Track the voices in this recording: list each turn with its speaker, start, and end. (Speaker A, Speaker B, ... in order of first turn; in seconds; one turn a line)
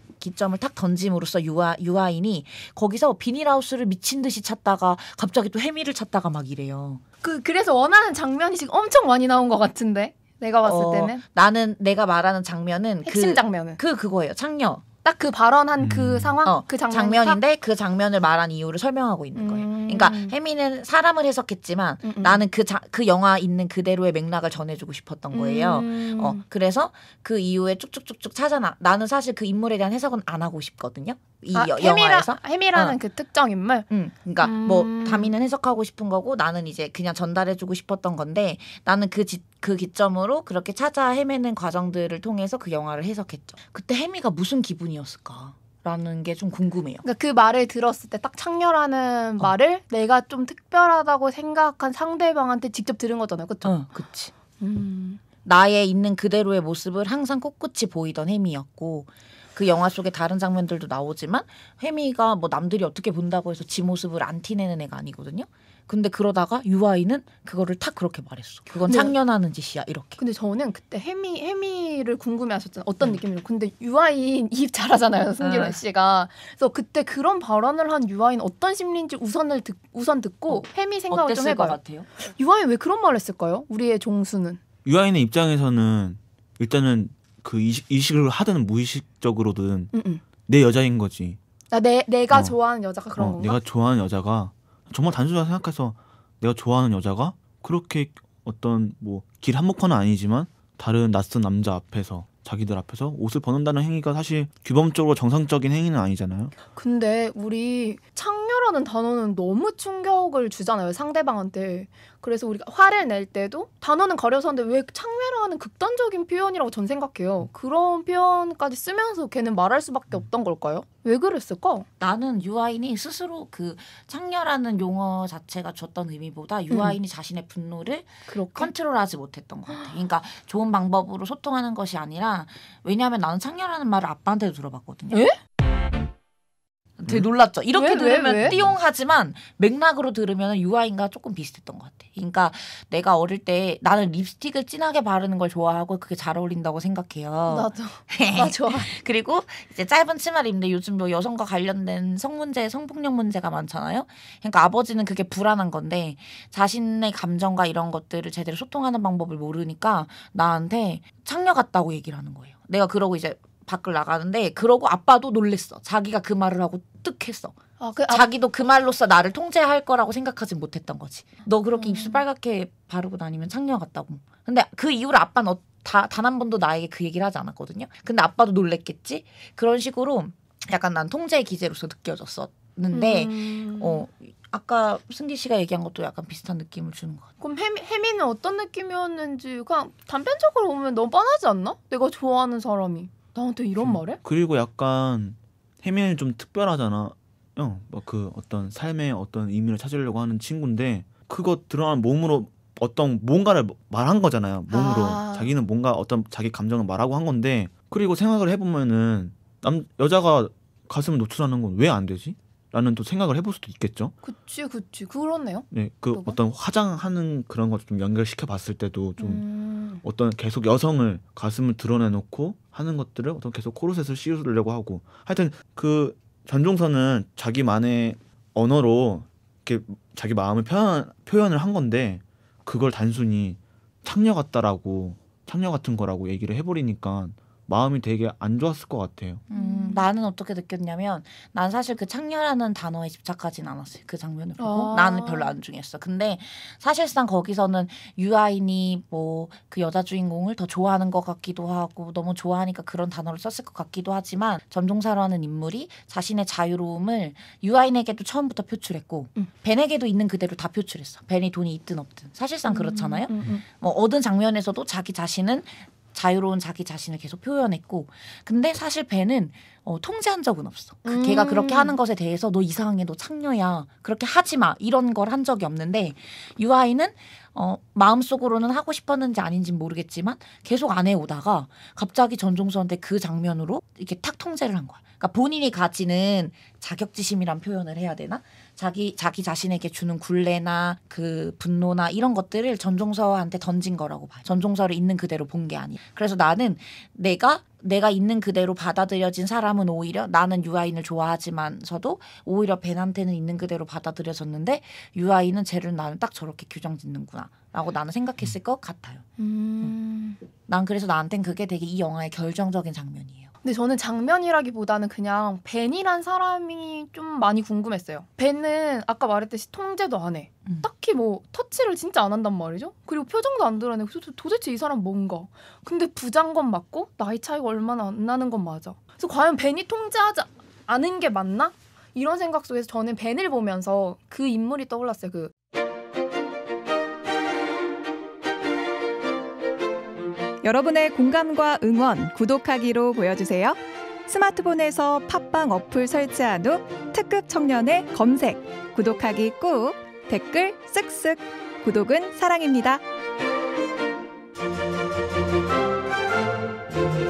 Speaker A: 0.2-7.0
Speaker B: 7.2-11.2
Speaker A: 10.6-14.8
Speaker B: 13.0-13.8
Speaker B: 15.0-17.4
Speaker C: 15.8-16.4
Speaker A: 16.4-33.0
Speaker B: 19.4-20.3
Speaker B: 22.0-22.4
Speaker B: 25.3-26.4
Speaker B: 31.5-33.9
Speaker A: 33.9-47.0
Speaker B: 34.4-35.3
Speaker B: 47.0-53.8
Speaker A: 53.6-54.3
Speaker B: 54.6-55.2
Speaker A: 55.4-70.2
Speaker B: 68.7-69.1
Speaker B: 70.2-84.6
Speaker A: 75.4-75.8
Speaker A: 80.5-82.1
Speaker C: 84.8-89.9
Speaker B: 89.9-90.2
Speaker C: 90.5-91.4
Speaker B: 91.7-93.6
Speaker C: 93.2-106.5
Speaker B: 106.7-121.9
Speaker A: 122.0-135.2
Speaker B: 126.7-127.0
Speaker B: 128.3-128.7
Speaker B: 135.1-135.3
Speaker A: 137.0-167.6
Speaker B: 137.7-138.6
Speaker B: 147.5-148.9
Speaker B: 167.8-168.3
Speaker A: 168.1-187.3
Speaker B: 171.7-172.2
Speaker B: 182.9-184.0
Speaker B: 187.4-194.2
Speaker C: 193.8-214.1
Speaker B: 204.7-205.5
Speaker B: 214.2-216.4
Speaker C: 215.7-219.4
Speaker B: 219.2-220.0
Speaker C: 220.0-239.4
Speaker A: 239.5-309.2
Speaker B: 239.5-240.1
Speaker B: 244.6-245.5
Speaker B: 262.7-263.6
Speaker B: 271.0-271.9
Speaker B: 309.4-310.4
Speaker A: 310.7-313.5
Speaker B: 313.6-335.5
Speaker D: 340.6-353.0